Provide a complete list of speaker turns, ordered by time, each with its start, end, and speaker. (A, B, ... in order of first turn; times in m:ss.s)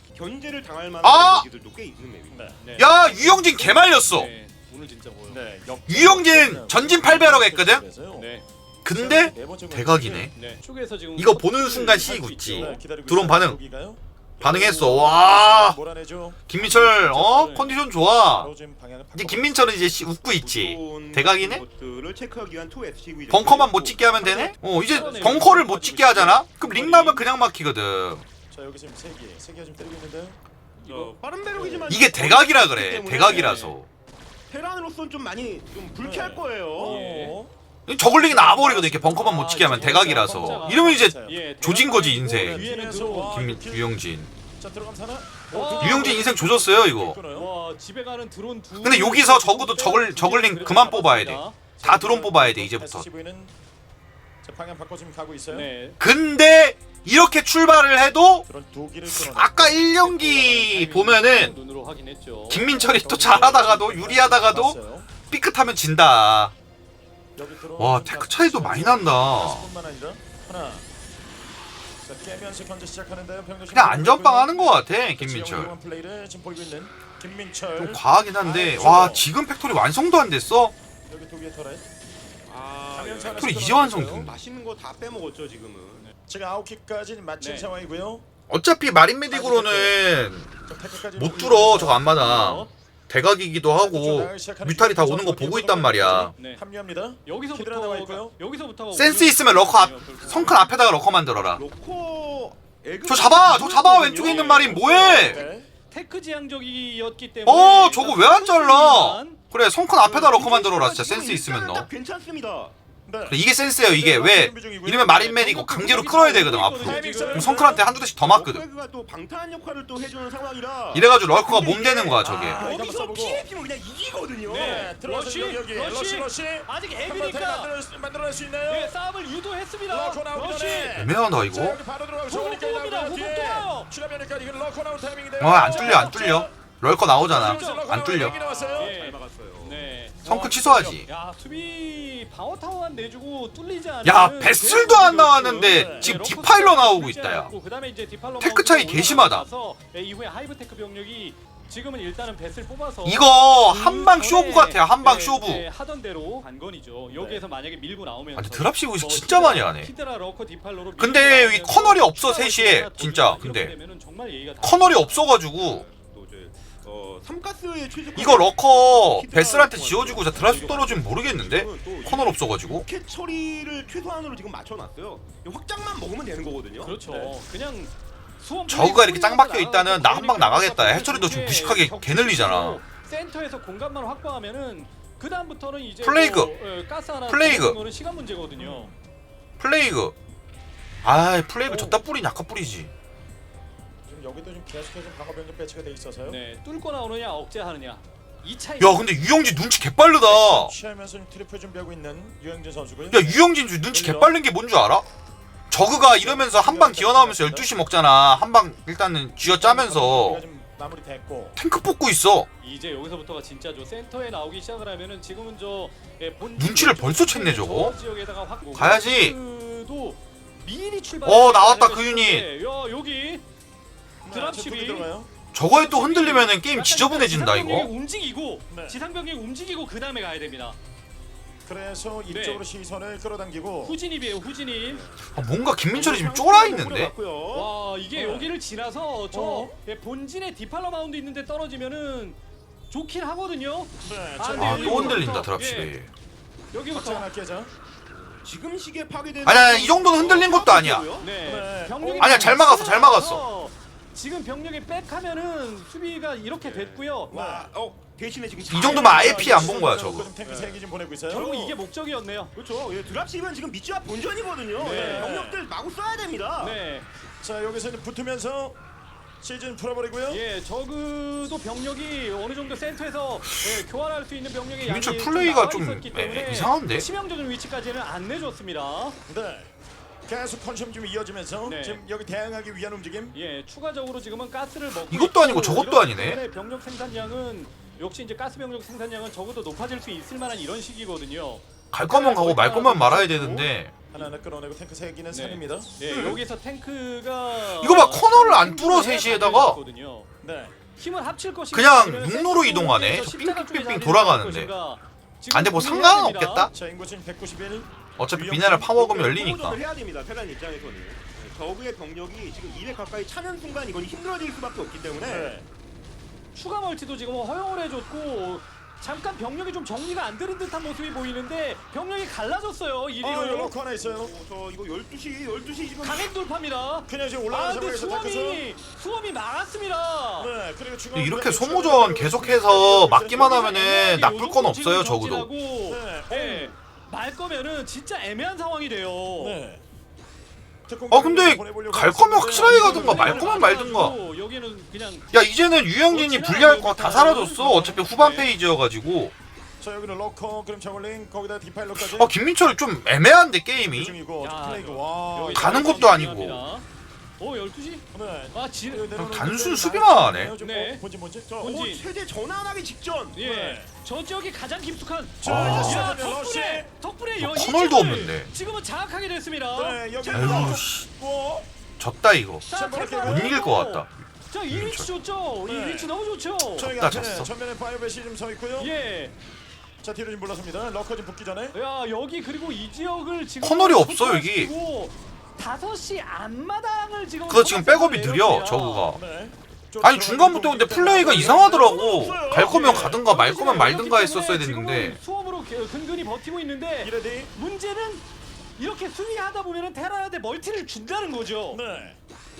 0:00.1-0:02.5 A
0:01.0-0:01.4 B
0:02.3-0:02.6 C
0:02.6-0:05.4 D
0:02.8-0:04.3 B
0:05.3-0:08.3 C
0:05.9-0:07.8 B
0:08.1-0:08.4 D
0:08.8-0:10.3 B
0:08.9-0:10.3 C
0:10.3-0:12.8 D
0:11.2-0:13.6 B
0:12.4-0:19.8 C
0:14.4-0:15.8 B
0:16.5-0:18.5 B
0:19.1-0:21.6 B
0:20.4-0:25.2 A
0:23.3-0:28.2 B
0:24.9-0:27.2 D
0:25.0-0:25.7 C
0:28.5-0:30.4 C
0:30.8-0:31.1 D
0:30.8-0:33.6 A
0:31.5-0:32.0 C
0:31.9-0:33.9 B
0:33.2-0:33.8 D
0:34.5-0:37.0 A
0:36.0-0:41.4 C
0:36.8-0:37.4 D
0:37.9-0:42.7 B
0:39.2-0:43.4 D
0:42.3-0:43.9 C
0:43.3-0:44.3 B
0:44.6-0:47.5 C
0:45.5-0:46.3 D
0:45.8-0:47.2 B
0:47.3-0:51.7 D
0:48.8-0:53.1 B
0:51.8-0:53.5 C
0:54.4-0:55.7 C
0:55.5-0:56.0 D
0:56.0-0:58.4 B
0:58.4-1:00.6 C
0:59.1-1:01.5 B
1:00.5-1:02.7 D
1:02.5-1:06.5 B
1:02.7-1:05.1 C
1:07.4-1:10.8 C
1:07.8-1:09.7 B
1:12.0-1:19.3 C
1:13.7-1:15.7 B
1:17.8-1:20.7 B
1:21.1-1:21.9 C
1:22.5-1:23.6 A
1:22.9-1:24.3 C
1:23.4-1:24.3 B
1:24.2-1:26.1 A
1:26.3-1:28.2 C
1:27.4-1:27.7 D
1:28.5-1:30.5 B
1:29.3-1:30.0 C
1:30.7-1:32.2 C
1:31.1-1:36.3 B
1:32.0-1:32.7 D
1:33.8-1:38.3 C
1:36.3-1:36.6 D
1:37.2-1:40.6 D
1:38.9-1:41.6 B
1:40.3-1:40.6 C
1:41.5-1:45.5 A
1:43.0-1:45.4 B
1:44.2-1:44.8 D
1:45.2-1:45.7 C
1:45.9-1:49.4 D
1:47.4-1:51.9 B
1:50.0-1:52.7 A
1:53.0-1:57.8 C
1:53.3-1:58.6 B
1:55.4-1:57.5 D
1:57.6-2:04.9 A
2:00.9-2:02.7 B
2:02.2-2:03.4 C
2:04.5-2:07.7 D
2:04.5-2:08.9 C
2:08.7-2:11.0 D
2:09.9-2:16.5 C
2:10.9-2:11.8 B
2:12.3-2:13.9 D
2:15.4-2:18.4 B
2:15.7-2:16.4 D
2:17.2-2:18.9 C
2:17.3-2:18.1 D
2:18.1-2:20.0 A
2:18.8-2:45.3 D
2:20.2-2:21.1 B
2:20.3-2:20.8 C
2:24.0-2:27.5 B
2:25.6-2:26.1 C
2:28.4-2:29.4 B
2:33.0-2:35.6 B
2:37.1-2:37.4 C
2:38.4-2:39.9 B
2:41.0-2:43.7 B
2:44.6-2:45.8 B
2:45.6-2:57.0 A
2:48.1-2:52.9 B
2:50.4-2:50.9 D
2:56.8-3:08.9 D
2:57.0-2:57.3 C
2:58.7-3:02.8 B
3:06.0-3:06.5 B
3:07.3-3:07.8 B
3:08.5-3:08.9 C
3:09.6-3:10.1 B
3:11.0-3:12.9 B
3:11.6-3:12.0 D
3:14.0-3:16.4 C
3:16.2-3:19.2 D
3:18.8-3:20.7 B
3:20.2-3:24.4 C
3:23.1-3:25.0 B
3:25.7-3:30.4 B
3:25.9-3:27.7 C
3:29.4-3:31.6 C
3:31.6-3:32.5 B
3:32.6-3:43.4 D
3:36.6-3:38.0 B
3:38.7-3:39.3 B
3:41.2-3:42.5 B
3:44.2-3:45.3 C
3:44.3-3:45.1 D
3:45.5-3:47.9 B
3:45.7-3:50.8 D
3:48.7-3:49.0 C
3:51.6-3:54.0 C
3:52.3-3:52.6 D
3:53.8-3:55.0 D
3:54.8-3:55.2 A
3:55.3-3:57.1 B
3:55.9-3:57.7 A
3:57.5-4:05.9 D
3:58.1-3:58.5 C
3:59.3-3:59.7 C
4:04.0-4:05.3 C
4:04.6-4:06.1 B
4:06.7-4:07.3 D
4:06.9-4:07.7 C
4:08.1-4:11.3 A
4:09.4-4:11.1 B
4:11.2-4:17.3 D
4:11.4-4:12.7 C
4:12.2-4:13.4 B
4:16.6-4:20.8 A
4:17.3-4:17.7 C
4:18.7-4:20.3 B
4:18.8-4:21.7 C
4:21.3-4:22.5 D
4:22.5-4:26.8 A
4:24.8-4:25.4 D
4:24.8-4:25.6 C
4:26.6-4:27.1 D
4:27.4-4:28.8 C
4:29.4-4:30.4 C
4:30.3-4:39.2 D
4:34.8-4:37.1 B
4:39.3-4:39.7 C
4:40.2-4:43.4 C
4:41.6-4:42.0 D
4:43.3-4:53.6 D
4:44.9-4:46.4 B
4:51.9-4:54.0 B
4:53.3-4:54.2 A
4:54.1-4:55.9 C
4:55.3-5:00.3 D
4:57.8-4:59.8 B
5:00.4-5:00.8 C
5:00.9-5:06.7 D
5:01.7-5:04.7 B
5:05.5-5:06.7 B
5:06.7-5:09.2 C
5:08.2-5:09.8 B
5:08.9-5:15.5 A
5:15.2-5:15.6 C
5:16.5-5:23.7 D
5:23.2-5:24.3 C
5:23.9-5:26.3 A
5:26.0-5:30.5 D
5:27.1-5:28.6 C
5:30.4-5:33.5 C
5:31.1-5:35.5 B
5:33.3-5:39.6 D
5:35.9-5:36.7 C
5:39.3-5:39.8 C
5:40.9-5:43.8 C
5:41.1-5:44.2 B
5:42.5-5:45.2 D
5:43.2-5:43.6 A
5:45.3-5:49.3 B
5:46.1-5:48.5 D
5:49.8-5:52.4 C
5:52.0-5:54.2 B
5:53.9-5:56.1 C
5:54.4-5:56.8 D
5:55.5-5:56.6 B
5:57.4-5:59.2 D
5:58.1-6:01.5 C
5:59.1-6:00.5 B
6:00.6-6:01.0 D
6:01.5-6:03.4 A
6:01.6-6:02.0 D
6:03.3-6:10.0 D
6:03.4-6:03.9 C
6:05.4-6:06.9 C
6:05.4-6:06.2 B
6:07.4-6:08.5 B
6:09.7-6:11.7 C
6:10.2-6:10.8 A
6:10.3-6:11.0 B
6:12.0-6:12.6 B
6:12.6-6:17.0 D
6:12.7-6:13.6 C
6:13.2-6:14.1 B
6:14.7-6:15.1 B
6:15.6-6:16.1 C
6:16.7-6:18.9 C
6:16.8-6:17.5 B
6:18.8-6:19.3 D
6:20.0-6:21.7 C
6:21.7-6:29.1 D
6:23.6-6:24.7 B
6:27.5-6:29.2 B
6:29.1-6:33.2 C
6:30.0-6:35.2 B
6:31.2-6:33.0 A
6:32.4-6:38.2 D
6:37.0-6:37.5 C
6:38.8-6:41.8 D
6:41.7-6:42.2 C